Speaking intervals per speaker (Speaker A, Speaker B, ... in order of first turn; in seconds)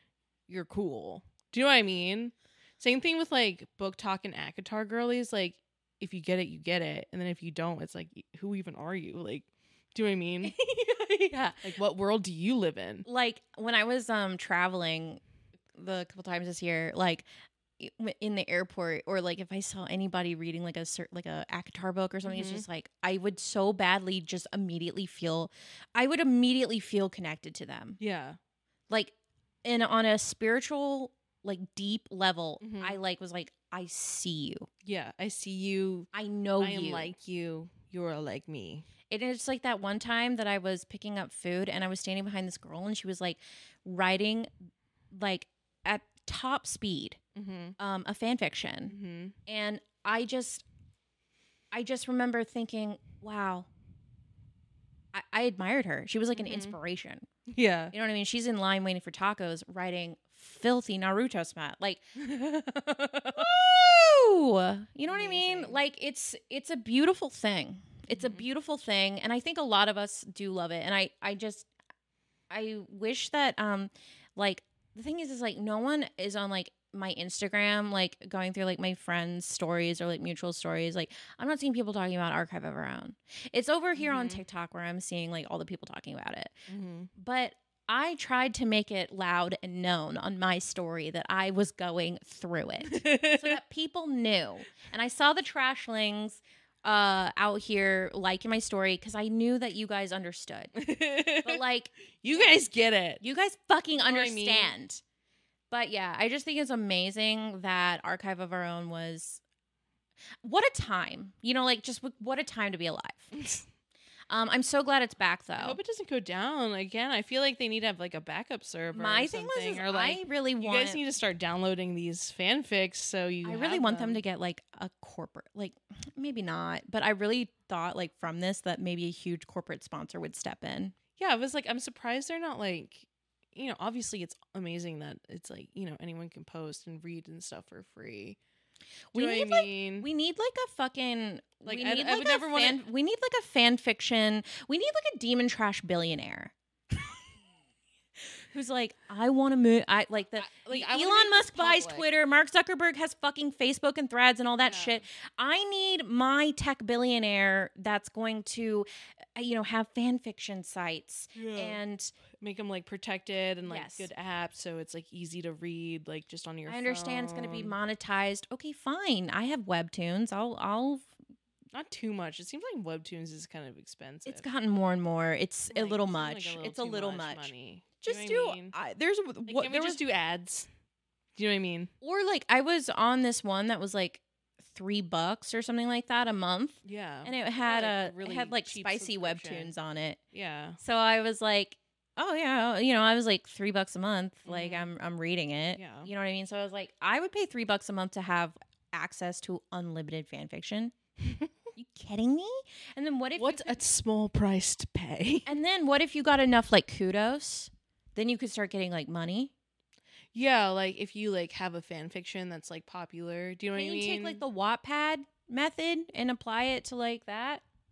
Speaker A: 0.5-10.5, 11.6-13.1, 22.2-22.6, 28.0-28.4, 32.6-33.0, 34.8-36.1, 36.6-38.9, 47.3-47.8, 48.9-49.4, 56.3-56.8, 57.5-57.9, 62.1-63.5, 65.1-65.8, 68.1-68.5, 84.0-84.4, 86.7-87.1, 92.8-93.5, 100.7-101.6, 102.2-103.2, 104.0-104.7, 115.6-124.2, 131.2-138.4, 139.1-140.1, 141.6-142.8, 150.4-152.1, 154.6-155.0, 161.3-161.8, 162.4-167.7, 171.7-174.4, 175.7-178.8, 179.5-180.7, 181.3-181.9, 186.8-189.7, 190.3-190.8, 194.4-194.9, 195.8-196.1, 201.2-201.5, 203.4-205.5, 210.3-214.4
Speaker B: 10.4-11.6, 13.1-15.2, 15.7-17.2, 17.8-28.0, 29.6-34.7, 36.1-37.1, 39.1-44.5, 45.1-47.2, 47.8-48.9, 49.5-50.6, 51.7-53.7, 55.1-57.2, 57.9-62.0, 63.3-71.7, 72.5-86.5, 87.2-100.7, 101.4-102.5, 103.2-105.0, 105.7-109.4, 110.4-113.5, 114.3-115.8, 118.9-121.0, 123.4-130.9, 139.1-147.1, 148.5-162.1, 163.6-164.1, 166.7-171.1, 174.2-180.0, 182.0-190.2, 190.8-200.9, 201.7-203.8, 205.4-209.5, 213.7-217.6